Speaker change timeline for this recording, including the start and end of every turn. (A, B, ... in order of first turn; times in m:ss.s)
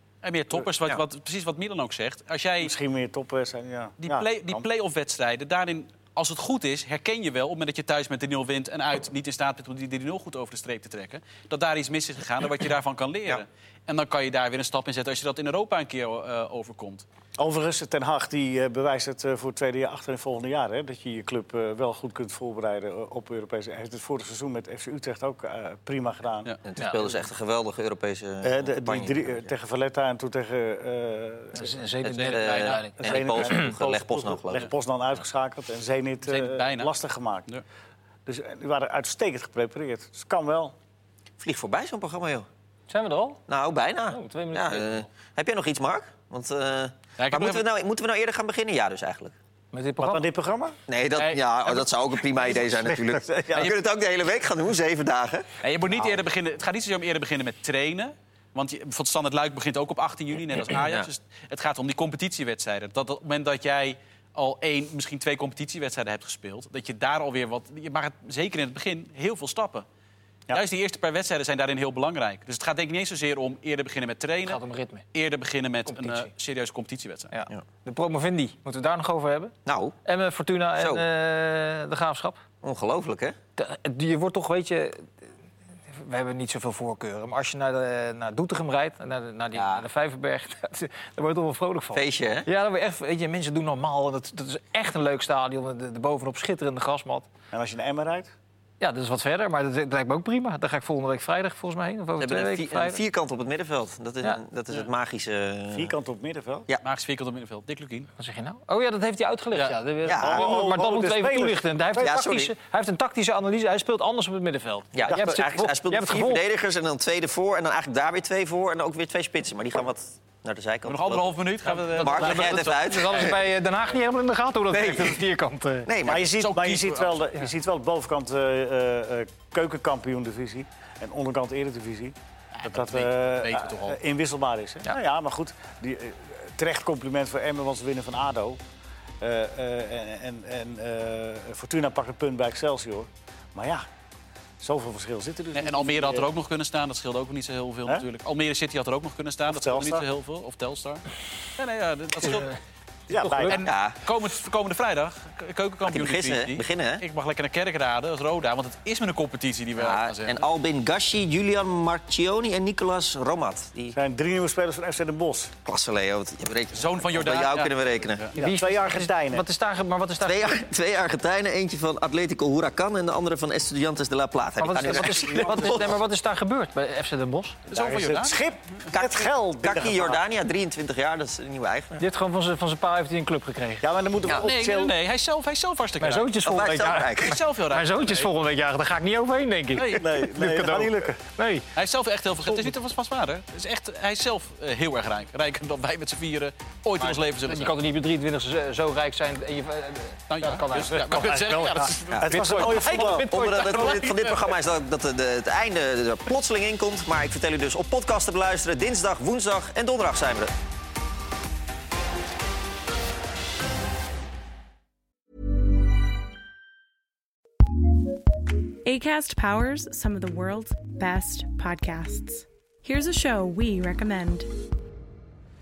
0:00.2-0:02.7 A
0:02.6-0:04.6 B
0:04.0-0:17.0 A
0:17.4-0:26.6 B
0:26.6-0:29.5 C
0:26.8-0:27.0 D
0:28.4-0:31.8 B
0:31.5-0:33.7 D
0:32.0-0:34.7 C
0:32.4-0:32.8 A
0:33.0-0:37.5 B
0:36.3-0:37.0 A
0:38.3-0:40.8 B
0:41.4-0:42.5 C
0:42.9-0:43.4 D
0:43.5-0:49.3 C
0:44.1-0:45.1 D
0:47.2-0:47.6 A
0:49.7-0:50.2 D
0:50.0-0:50.8 B
0:50.9-0:55.5 C
0:51.1-0:51.9 A
0:52.5-0:53.7 B
0:55.6-1:09.8 A
1:00.5-1:01.1 C
1:10.5-1:14.6 A
1:14.5-1:15.0 D
1:15.1-1:17.3 A
1:15.9-1:16.3 D
1:17.3-1:19.5 D
1:19.7-1:19.9 C
1:20.0-1:22.4 D
1:20.8-1:21.0 C
1:22.6-1:23.4 C
1:23.6-1:25.1 D
1:25.9-1:37.3 D
1:29.6-1:29.9 C
1:31.9-1:32.5 C
1:37.5-1:38.3 B
1:38.8-1:43.0 D
1:42.2-1:45.9 C
1:45.7-1:46.7 B
1:46.8-1:48.1 A
1:48.2-1:56.4 D
1:50.1-1:50.5 C
1:50.1-1:52.1 B
1:52.0-1:52.5 C
1:54.9-2:01.3 C
2:00.9-2:03.3 A
2:01.8-2:05.9 D
2:01.9-2:03.4 C
2:04.7-2:05.2 C
2:05.9-2:06.3 C
2:06.0-2:18.6 B
2:06.4-2:07.2 A
2:12.6-2:14.0 A
2:19.2-2:23.8 B
2:24.6-2:26.3 B
2:25.6-2:31.0 A
2:29.5-2:30.1 B
2:31.6-2:32.6 A
2:32.2-2:32.5 D
2:33.1-2:33.7 B
2:33.1-2:33.6 D
2:33.5-2:40.5 A
2:33.6-2:34.0 C
2:35.8-2:37.0 C
2:39.8-2:44.0 C
2:43.9-2:45.5 B
2:45.6-2:48.2 C
2:46.7-2:48.4 A
2:48.4-2:49.5 B
2:48.4-2:50.6 D
2:50.2-2:56.0 C
2:54.6-2:57.7 D
2:55.0-2:55.6 B
2:57.7-2:58.4 A
2:57.7-3:00.2 B
2:58.9-3:02.0 C
3:02.0-3:03.9 D
3:03.8-3:05.0 B
3:04.2-3:04.5 C
3:04.4-3:06.3 A
3:06.0-3:11.6 D
3:06.4-3:07.4 C
3:07.2-3:08.3 A
3:09.7-3:10.1 A
3:09.9-3:11.2 B
3:11.8-3:17.8 A
3:17.4-3:24.0 D
3:20.3-3:24.5 A
3:20.7-3:23.3 B
3:22.1-3:30.5 C
3:38.8-3:44.5 E